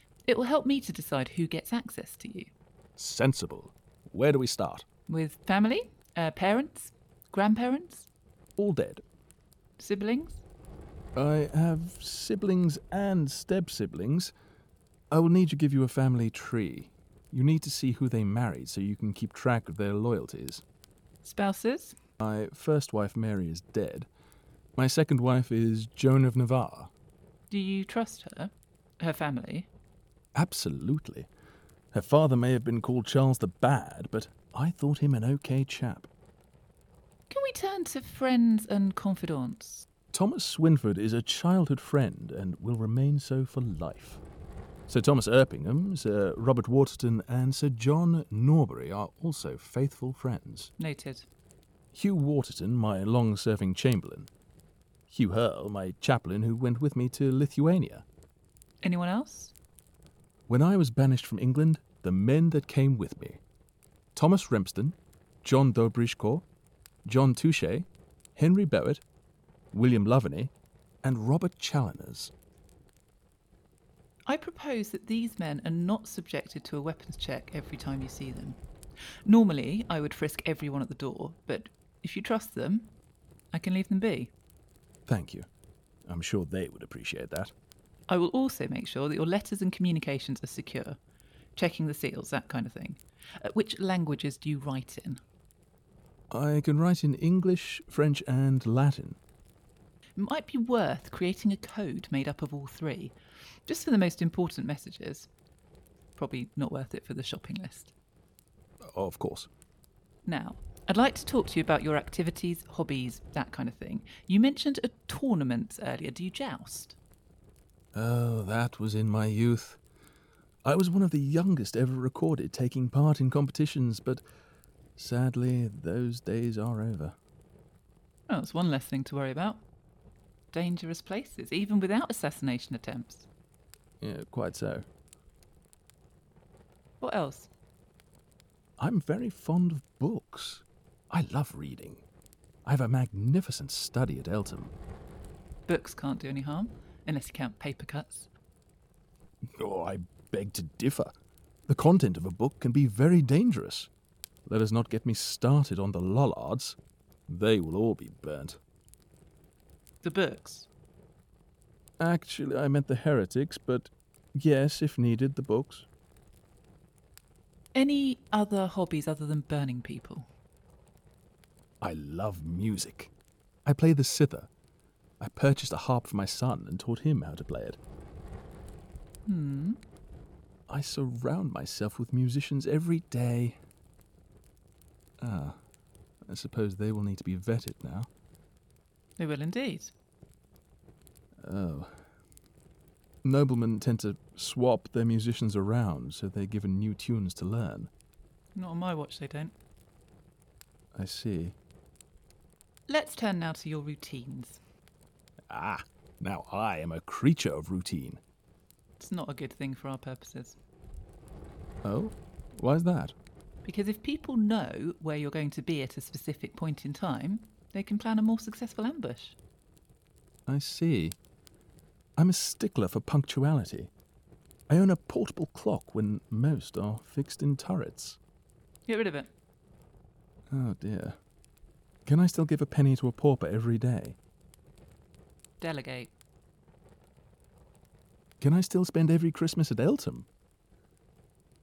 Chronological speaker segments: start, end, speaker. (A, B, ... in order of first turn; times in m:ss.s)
0:00.2-0:02.5 A
0:03.0-0:04.8 B
0:05.1-0:08.1 A
0:08.6-0:09.0 B
0:09.8-0:10.4 A
0:11.2-0:14.3 B
0:15.1-0:20.6 B
0:21.2-0:22.0 A
0:22.2-0:24.1 B
0:24.8-0:26.9 B
0:27.5-0:29.7 A
0:30.4-0:31.3 B
0:31.9-0:36.1 B
0:37.3-0:39.9 A
0:40.1-0:44.2 B
0:44.9-0:50.7 B
0:50.8-0:51.3 A
0:51.9-0:54.3 B
0:55.1-0:58.0 B
0:58.8-0:59.5 A
1:00.5-1:03.4 B
1:04.2-1:06.5 B
1:07.1-1:09.0 B
1:09.7-1:10.5 B
1:11.0-1:12.3 B
1:14.3-1:18.6 A
1:19.3-1:22.9 A
1:23.5-1:24.3 A
1:25.1-1:25.5 B
1:26.1-1:27.5 B
1:28.1-1:31.0 A
1:31.6-1:35.2 A
1:36.3-1:39.2 B
1:40.2-1:43.2 A
1:43.7-1:45.3 A
1:46.2-1:47.9 A
1:48.9-1:49.5 B
1:50.2-1:57.0 A
1:58.0-1:59.8 B
2:00.6-2:04.2 B
2:05.0-2:07.2 B
2:08.3-2:09.6 A
2:10.5-2:13.3 A
2:14.0-2:14.9 B
2:17.0-2:17.5 A
2:18.8-2:22.0 B
2:22.6-2:24.7 B
2:25.7-2:28.3 A
2:29.6-2:31.1 B
2:31.7-2:33.9 B
2:34.5-2:38.6 B
2:40.0-2:40.7 A
2:42.0-2:45.9 B
2:47.8-2:50.3 A
2:51.8-2:53.1 B
2:53.7-2:54.5 B
2:55.2-2:57.8 B
2:59.3-2:59.8 A
3:00.7-3:03.6 B
3:05.2-3:05.6 B
3:06.3-3:08.1 B
3:09.2-3:09.9 A
3:11.4-3:11.9 B
3:13.2-3:17.9 B
3:18.6-3:19.5 A
3:21.0-3:21.6 B
3:22.9-3:24.6 A
3:25.5-3:28.2 B
3:29.0-3:30.6 A
3:31.8-3:33.2 B
3:33.6-3:39.4 A
3:40.5-3:41.2 B
3:42.2-3:43.9 B
3:44.7-3:48.2 B
3:48.9-3:49.3 A
3:50.5-3:51.2 B
3:52.1-3:54.2 B
3:55.6-3:56.1 A
3:58.4-4:00.3 B